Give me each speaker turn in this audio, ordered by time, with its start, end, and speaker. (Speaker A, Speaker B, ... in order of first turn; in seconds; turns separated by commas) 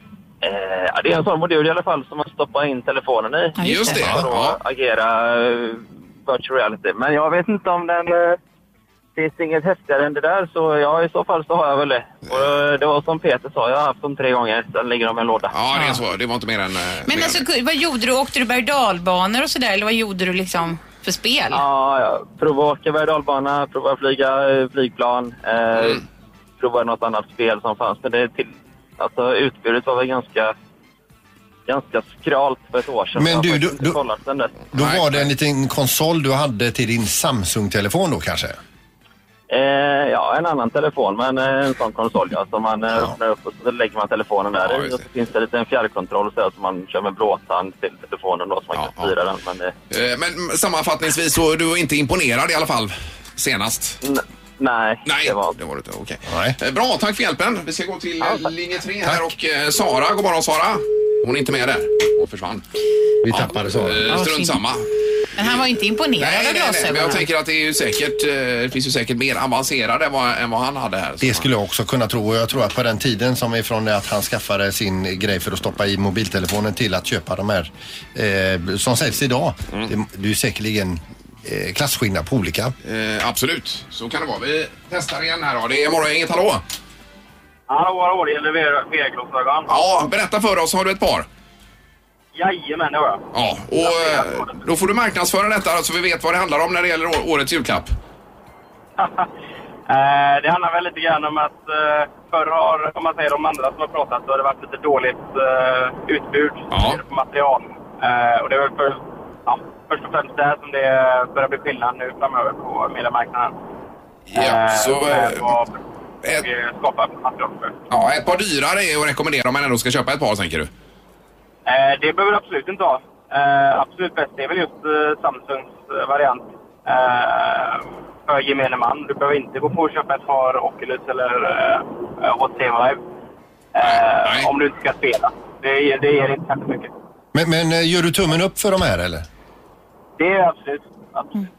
Speaker A: 0.4-8.4, Speaker B: 3.6-4.0, Speaker C: 3.6-4.6, Speaker D: 4.0-4.2, Speaker A: 9.2-15.5, Speaker C: 15.5-17.4, Speaker B: 15.7-16.0, Speaker B: 17.1-21.6, Speaker A: 21.5-26.0, Speaker A: 26.6-30.5, Speaker A: 31.7-34.5, Speaker D: 33.1-34.0, Speaker D: 34.7-38.6, Speaker C: 34.7-35.3, Speaker A: 39.5-49.7, Speaker C: 44.6-45.0, Speaker C: 48.7-49.1, Speaker C: 49.9-54.0, Speaker A: 54.0-55.5, Speaker C: 55.0-62.6, Speaker D: 56.2-56.6, Speaker A: 58.2-58.5, Speaker D: 59.0-59.3, Speaker D: 63.2-64.1, Speaker C: 63.3-64.8, Speaker B: 64.1-64.6, Speaker B: 65.4-67.2, Speaker C: 66.2-71.5, Speaker D: 71.2-82.7, Speaker C: 82.8-86.6, Speaker E: 87.7-89.8, Speaker C: 89.7-91.3, Speaker E: 92.3-93.2, Speaker C: 93.3-97.9, Speaker E: 93.8-94.6, Speaker E: 99.0-99.3, Speaker E: 99.9-113.5, Speaker C: 106.7-107.0, Speaker C: 114.3-115.5, Speaker E: 114.3-117.8, Speaker C: 117.9-120.7, Speaker E: 121.7-133.0, Speaker E: 133.7-136.9, Speaker C: 133.8-134.5, Speaker D: 137.3-139.2, Speaker E: 140.2-141.4